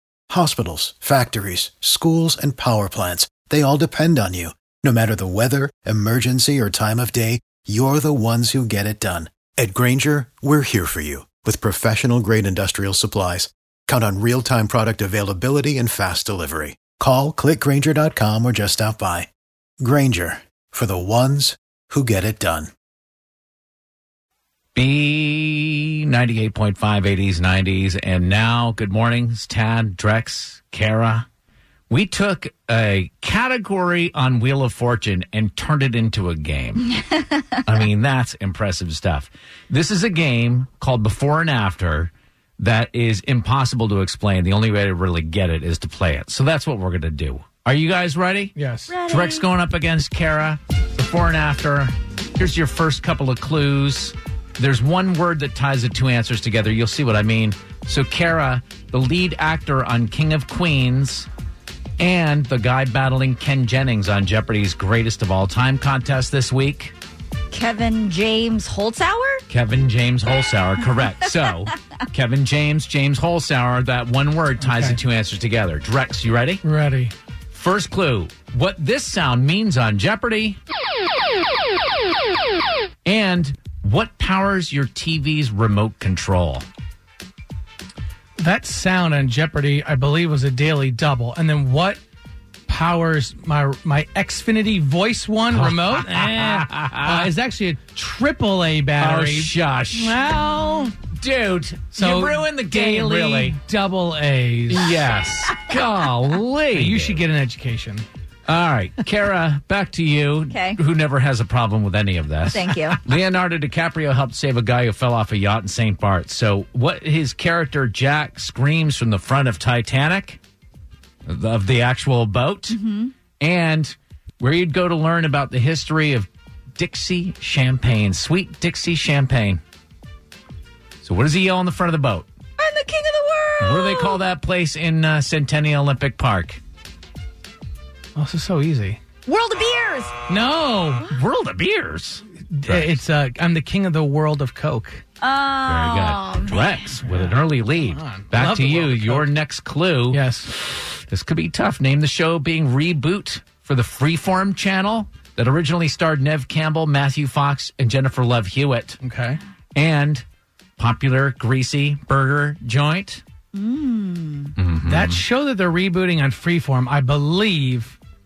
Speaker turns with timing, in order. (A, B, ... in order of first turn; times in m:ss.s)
0:00.3-0:19.3 A
0:19.8-0:22.7 A
0:24.7-0:31.2 B
0:31.9-1:01.3 B
0:48.5-0:48.9 C
0:48.9-0:49.4 D
1:02.0-1:06.9 B
1:07.5-1:09.4 D
1:09.5-1:16.6 B
1:14.6-1:15.0 C
1:16.6-1:17.1 C
1:17.5-1:20.6 B
1:23.0-1:26.6 B
1:28.4-1:32.0 C
1:32.7-1:41.0 C
1:35.5-1:37.3 B
1:39.0-1:40.2 B
1:41.0-1:43.6 B
1:42.0-1:45.0 C
1:44.7-1:47.2 B
1:46.7-1:48.0 C
1:48.5-2:00.4 B
1:50.5-1:50.8 D
1:52.4-1:53.0 D
2:01.2-2:02.8 B
2:02.7-2:03.1 D
2:03.4-2:09.6 B
2:11.0-2:12.3 B
2:12.6-2:14.2 D
2:13.6-2:16.6 B
2:18.2-2:19.1 C
2:19.2-2:20.2 D
2:20.3-2:21.1 C
2:21.1-2:23.0 B
2:22.4-2:25.0 C
2:25.2-2:26.9 D
2:25.6-2:39.0 B
2:27.1-2:29.3 C
2:30.1-2:30.5 C
2:39.0-2:39.4 C
2:39.7-2:40.2 B
2:40.8-2:43.2 B
2:43.5-2:44.5 D
2:44.6-2:45.2 B
2:44.8-2:48.0 C